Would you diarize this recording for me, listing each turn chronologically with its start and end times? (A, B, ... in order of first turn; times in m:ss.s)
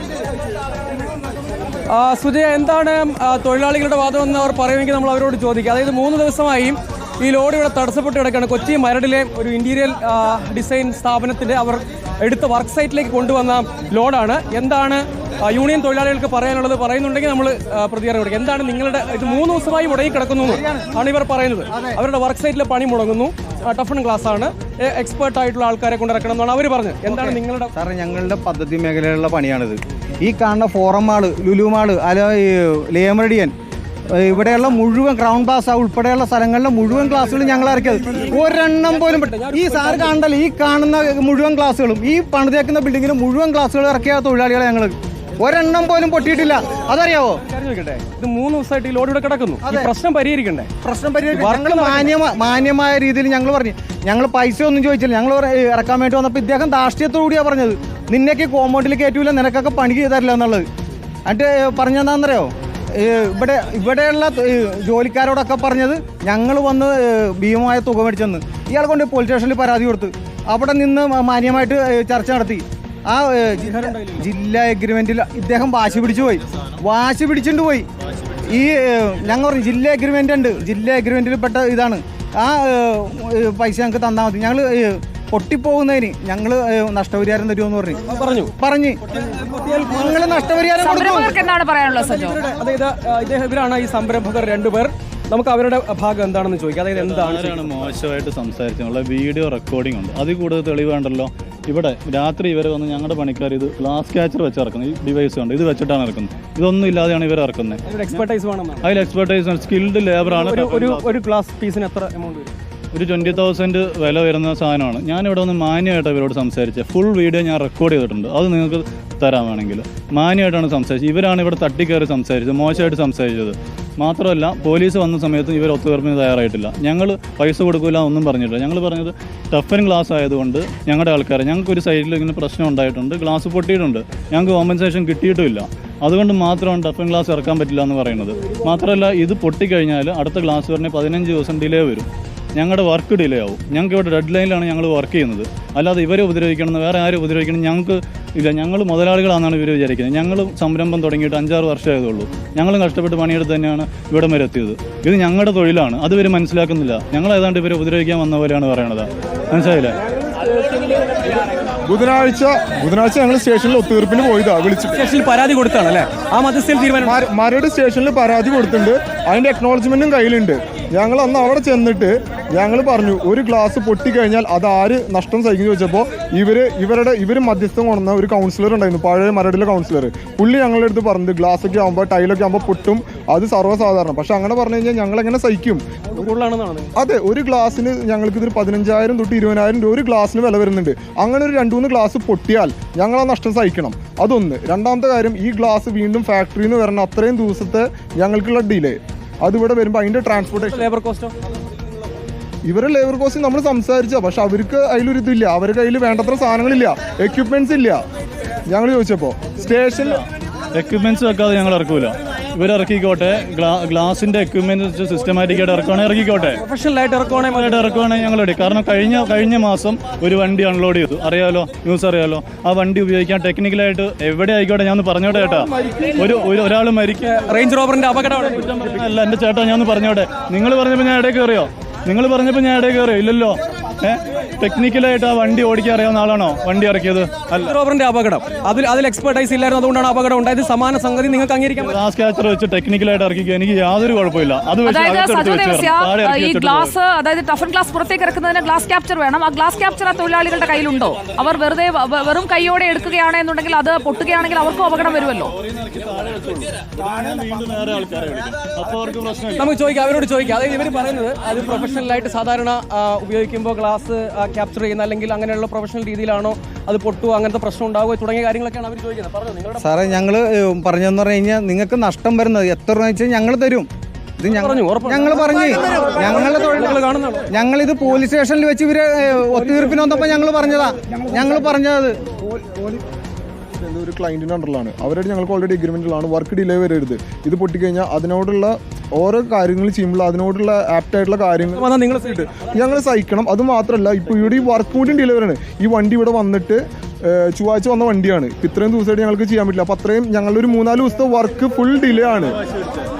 0:02.0-0:06.8 A
0:07.4-0:15.0 A
0:15.6-0:20.6 A
0:20.4-0:21.0 B
0:21.2-0:27.7 A
0:21.7-0:22.0 B
0:27.0-0:33.5 B
0:34.1-0:47.4 B
0:38.9-0:40.0 A
0:47.5-0:50.7 A
0:49.6-0:49.9 B
0:50.8-1:00.6 B
0:51.5-0:52.0 A
1:01.3-1:17.9 B
1:18.4-1:29.0 B
1:29.6-1:31.3 B
1:30.8-1:32.4 C
1:32.7-1:34.9 A
1:35.4-1:37.6 A
1:37.0-1:48.2 D
1:48.3-1:48.7 A
1:48.8-1:51.2 D
1:50.3-1:52.5 A
1:52.9-2:39.9 D
2:41.8-2:45.1 E
2:45.2-2:46.8 A
2:47.0-3:05.8 E
3:06.2-3:06.9 A
3:07.0-3:20.9 E
3:20.7-3:21.3 A
3:22.6-3:28.0 E
3:28.7-3:30.2 E
3:30.0-3:36.6 D
3:36.7-3:37.7 A
3:37.4-3:47.4 D
3:47.7-3:48.4 A
3:48.4-3:57.8 D
3:57.8-4:01.8 A
4:01.8-4:06.9 D
4:04.8-4:15.5 C
4:15.5-4:19.7 D
4:19.8-4:29.8 A
4:29.8-4:33.9 B
4:34.4-4:42.2 B
4:34.6-4:35.3 A
4:36.7-4:37.4 A
4:42.4-4:43.0 E
4:43.8-5:02.5 E
4:51.9-4:52.4 A